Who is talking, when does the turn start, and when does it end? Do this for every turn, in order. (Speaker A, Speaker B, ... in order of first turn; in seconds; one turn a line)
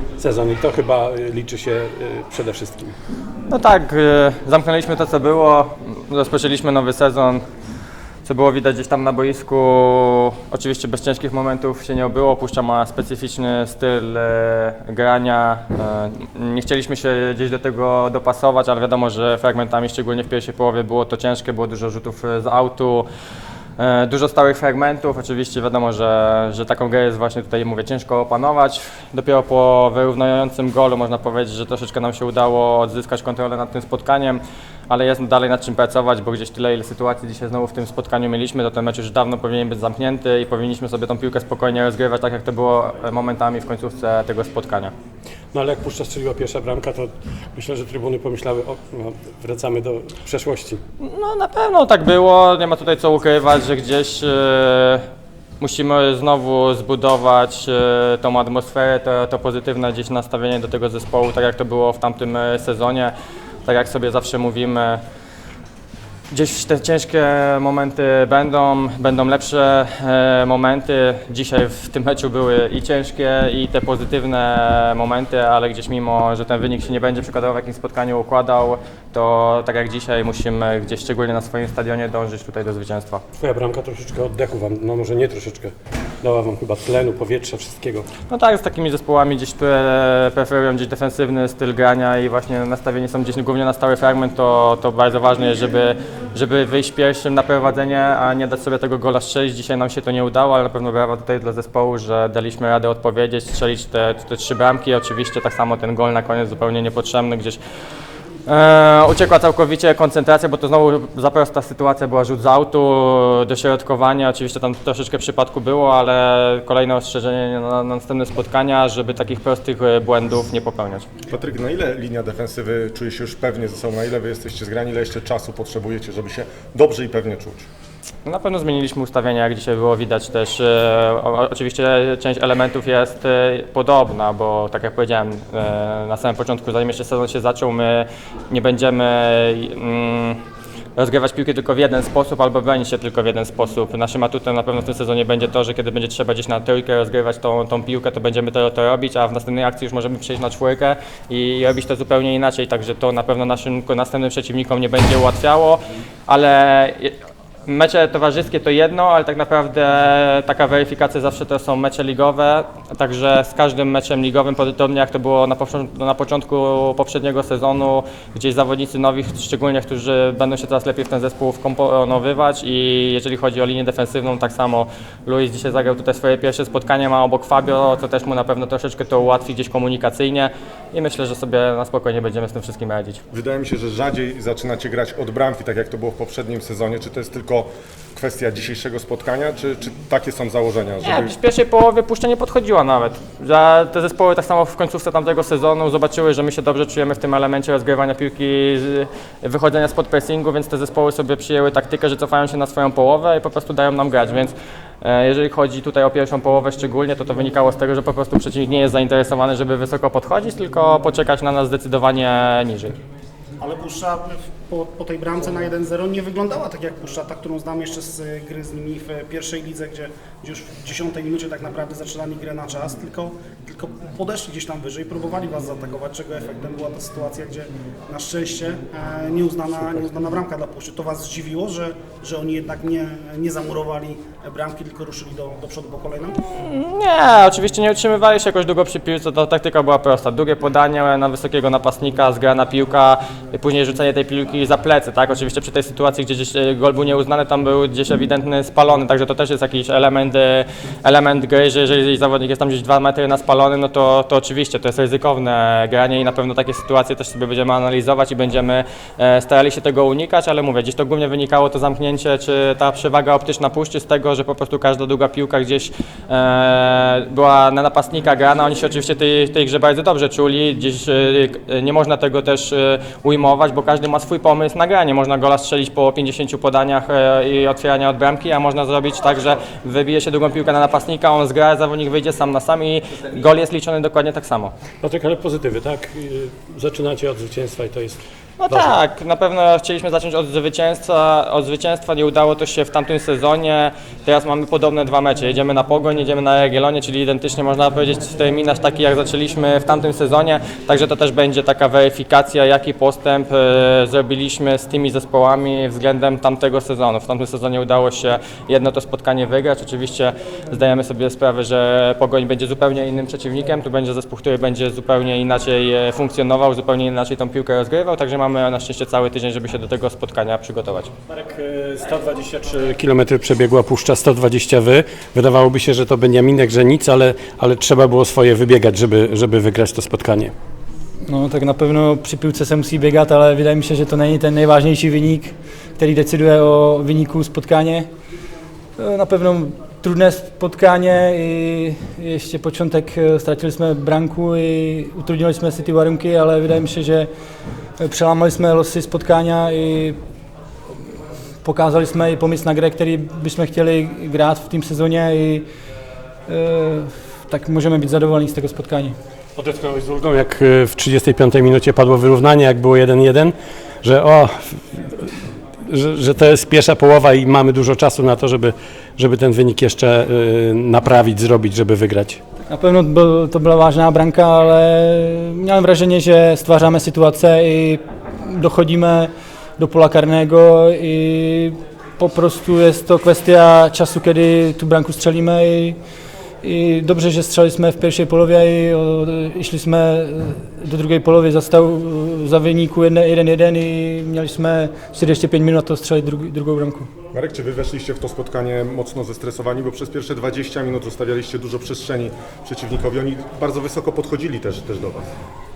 Speaker A: 0.2-3.0
Speaker B: 3.5-7.4
Speaker B: 8.2-23.1
Speaker B: 23.8-44.9
Speaker A: 45.5-50.8
Speaker B: 51.0-55.1
Speaker B: 55.6-63.1
Speaker B: 63.7-65.0
Speaker B: 66.3-83.2
Speaker A: 83.4-88.1
Speaker B: 88.3-107.6
Speaker B: 108.5-121.1
Speaker C: 121.3-127.7
Speaker B: 128.2-140.4
Speaker B: 141.0-157.2
Speaker B: 157.7-183.2
Speaker C: 183.3-191.4
Speaker B: 191.1-213.0
Speaker D: 213.6-236.4
Speaker B: 236.7-284.7
Speaker A: 285.0-288.9
Speaker B: 288.6-321.1
Speaker A: 321.3-330.5
Speaker E: 331.3-338.1
Speaker E: 339.0-347.3
Speaker E: 348.0-350.2
Speaker E: 351.6-355.7
Speaker E: 356.5-359.2
Speaker A: 359.6-372.4
Speaker E: 372.7-386.0
Speaker E: 386.6-397.1
Speaker C: 397.3-405.3